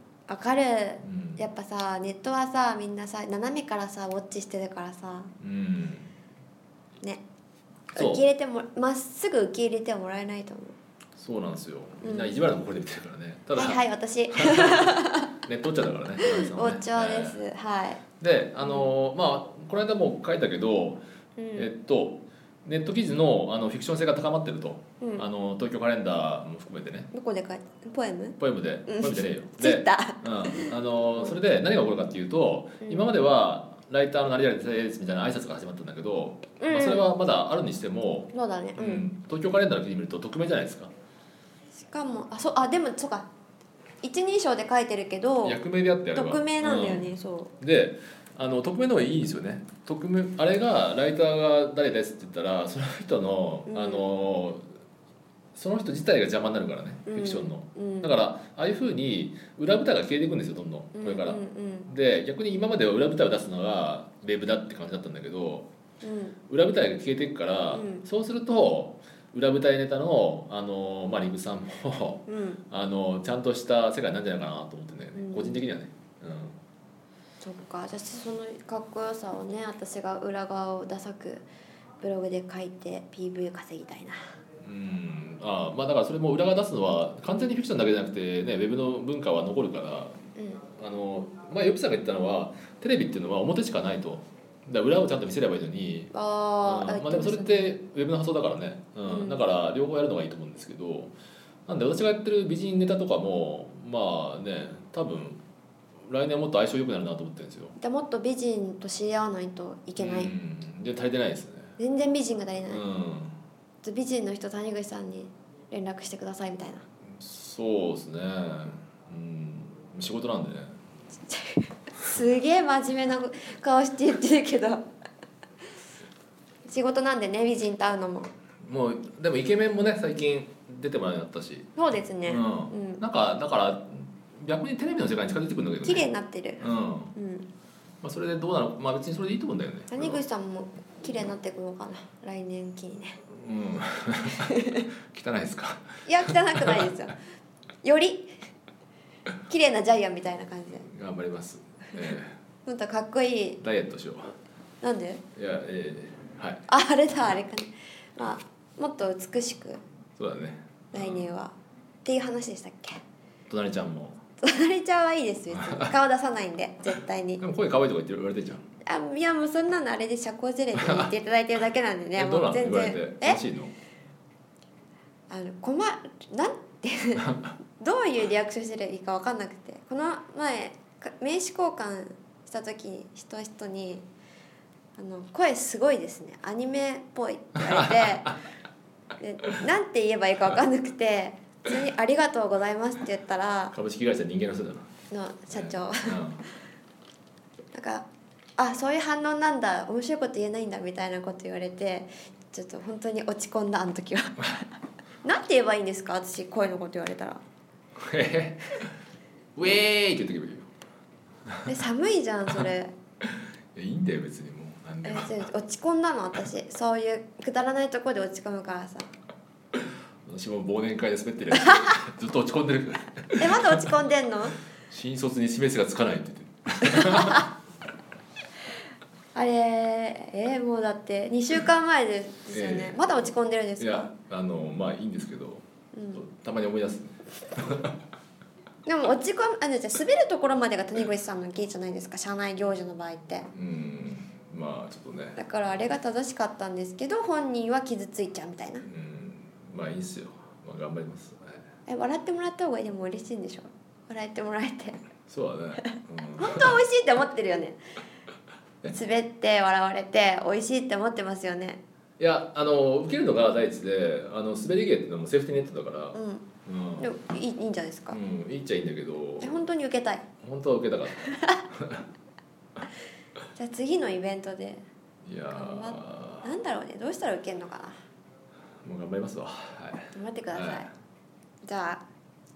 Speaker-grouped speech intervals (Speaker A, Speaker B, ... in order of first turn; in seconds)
Speaker A: 0.3-5.3, 8.0-10.8, 12.0-12.4, 13.6-15.4, 16.2-18.0, 18.6-18.9, 21.4-21.7, 25.0-25.3, 27.1-31.4, 32.8-33.1, 36.6-37.1, 38.3-39.1, 41.8-43.3, 44.0-45.6, 46.1-47.5, 53.7-54.1, 57.1-58.1, 61.0-61.9, 66.0-66.4, 67.7-68.0, 72.3-72.6, 75.2-75.6, 77.4-81.5, 82.0-84.2, 90.4-90.6, 96.1-97.7, 99.1-99.4, 107.8-110.3, 111.8-112.8, 113.8-116.8, 121.3-124.8, 126.7-128.3, 131.8-133.0, 135.8-136.6, 137.2-137.5, 139.9-143.2, 144.4-144.9, 146.1-147.2, 147.8-148.3, 149.5-150.9, 152.7-153.6, 154.8-155.2, 156.7-159.8, 160.9-161.5, 162.1-163.0, 164.4-167.4, 168.8-173.4, 175.3-184.0, 185.0-188.4, 189.2-193.8, 195.1-196.2, 197.7-198.1, 198.6-204.7, 205.2-207.4, 211.7-212.9, 215.0-219.1, 223.4-224.6, 227.1-227.4, 229.3-234.1, 235.9-236.2, 238.9-243.5, 245.4-248.9, 251.9-255.0, 255.8-257.8, 258.9-261.8, 266.1-266.5, 267.0-268.2, 269.4-270.2, 271.2-271.6, 273.6-274.8, 275.5-278.0, 280.1-280.9, 281.6-282.0
Speaker B: 1.0-1.4, 5.4-6.1, 8.0-8.2, 11.2-17.4, 18.2-21.0, 21.5-27.1, 28.4-40.9, 45.4-54.6, 55.5-65.7, 66.5-76.6, 84.6-90.2, 90.8-96.1, 96.6-101.1, 101.7-105.4, 106.1-107.8, 110.0-111.8, 112.7-113.4, 117.1-120.8, 128.6-131.7, 132.2-137.2, 138.0-140.2, 143.3-146.9, 150.8-152.4, 153.6-154.4, 155.4-156.6, 160.2-161.3, 163.5-164.2, 165.7-165.9, 167.4-168.6, 170.7-171.1, 172.2-173.7, 177.2-177.5, 187.6-188.4, 193.7-194.9, 195.5-196.4, 208.0-208.9, 209.6-210.7, 213.8-215.5, 220.3-223.9, 224.9-227.5, 232.5-233.1, 233.8-238.0, 243.5-245.4, 248.8-251.6, 255.3-256.8, 262.2-267.1, 268.1-269.6, 270.4-272.1, 275.2-276.5, 278.8-280.9